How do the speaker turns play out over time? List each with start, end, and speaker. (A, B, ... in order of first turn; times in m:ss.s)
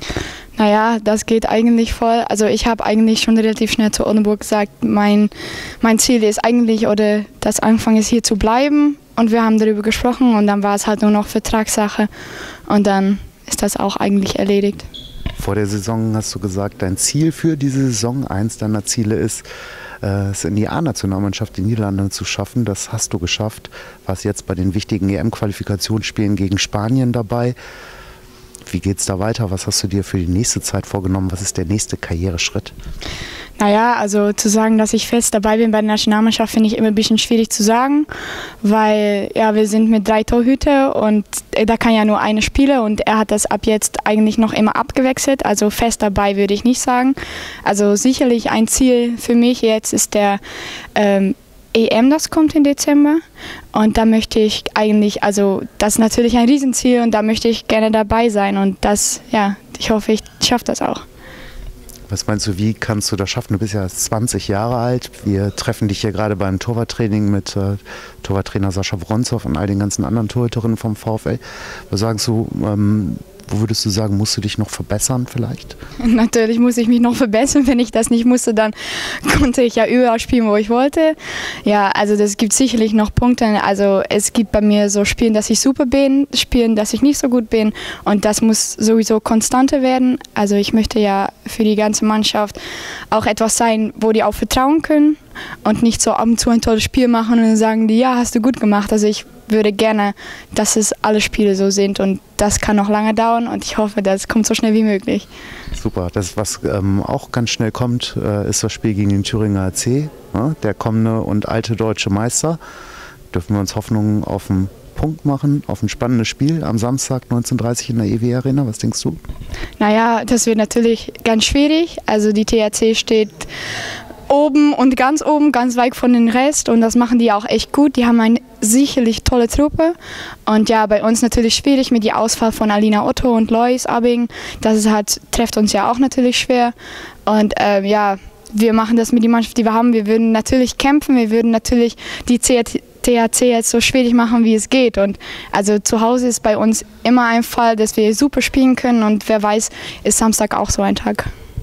0:00.6-0:12.1 A
0:12.7-0:14.9 A
0:15.4-0:19.5 B
0:20.0-0:27.6 B
0:28.7-0:32.8 B
0:33.6-0:38.1 A
0:38.6-0:50.4 A
0:51.0-0:53.2 A
0:53.7-1:01.0 A
1:02.1-1:15.8 B
1:16.0-1:32.6 A
1:33.1-1:45.3 A
1:45.8-1:52.6 B
1:53.3-1:59.2 B
1:59.8-2:03.5 A
2:04.3-2:16.8 A
2:17.3-2:31.3 A